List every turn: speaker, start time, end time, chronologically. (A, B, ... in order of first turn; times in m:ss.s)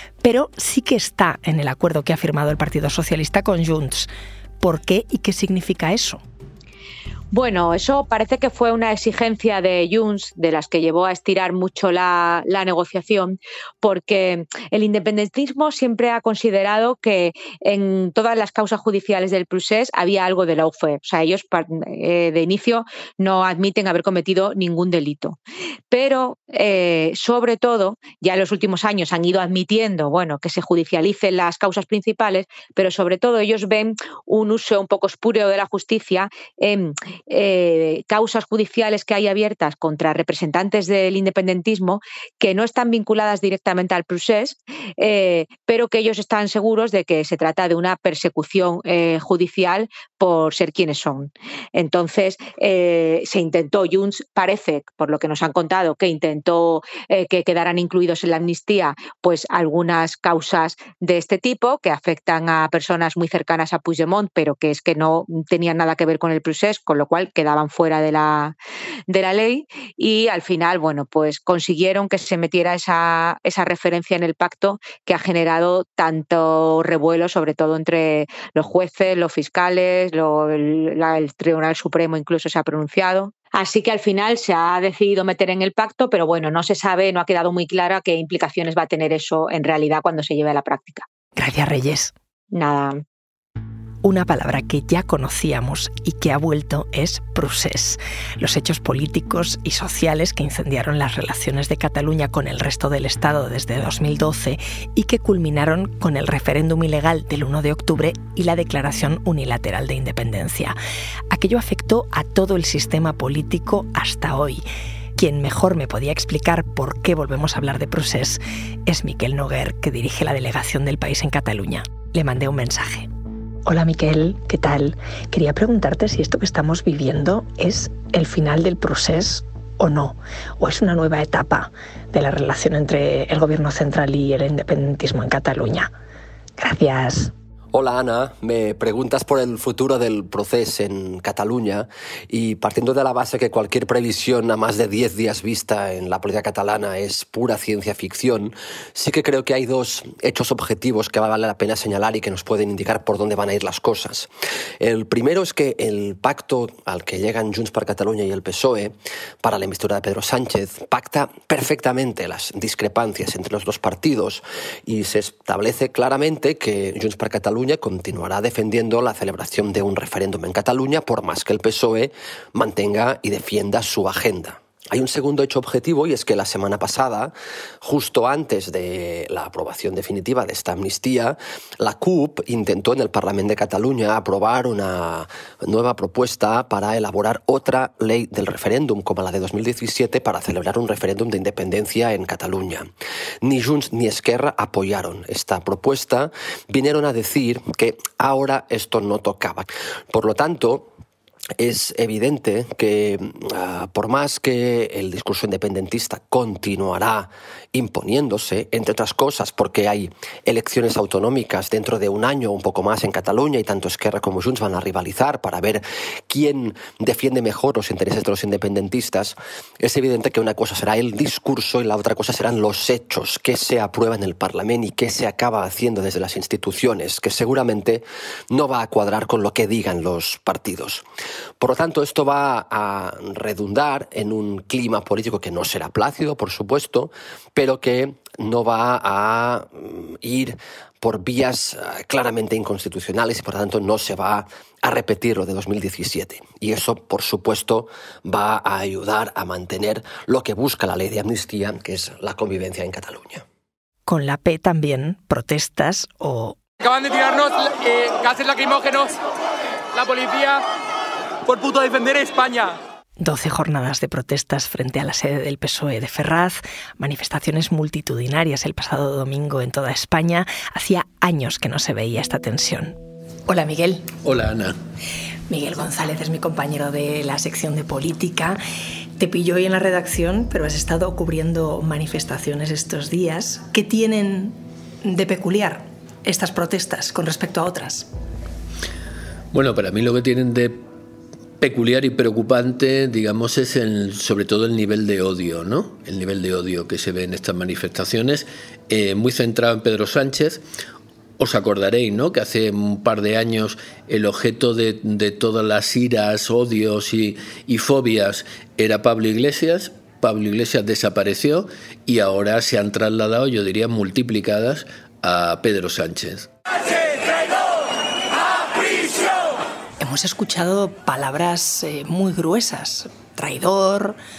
0:00.2-0:06.2 A
0:07.3-0:25.4 B
0:25.9-1:08.5 B
1:09.1-1:31.0 B
1:31.4-1:32.1 A
1:32.5-1:33.0 B
1:34.0-1:50.8 A
1:51.3-1:54.6 A
1:55.2-2:03.1 A
2:03.6-2:15.9 A
2:16.6-2:17.3 A
2:17.7-3:12.9 C
3:13.4-3:20.9 C
3:21.6-3:51.0 C
3:51.6-4:13.4 C
4:14.1-4:16.6 A
4:16.8-4:19.1 D
4:19.9-4:20.6 D
4:21.4-4:22.8 D
4:23.2-4:33.0 A
4:33.5-4:34.1 A
4:34.2-4:34.8 E
4:35.5-4:38.6 A
4:39.2-4:48.1 A
4:49.5-4:50.8 E
4:51.6-5:00.6 E
5:01.4-5:16.5 E
5:20.0-5:24.2 A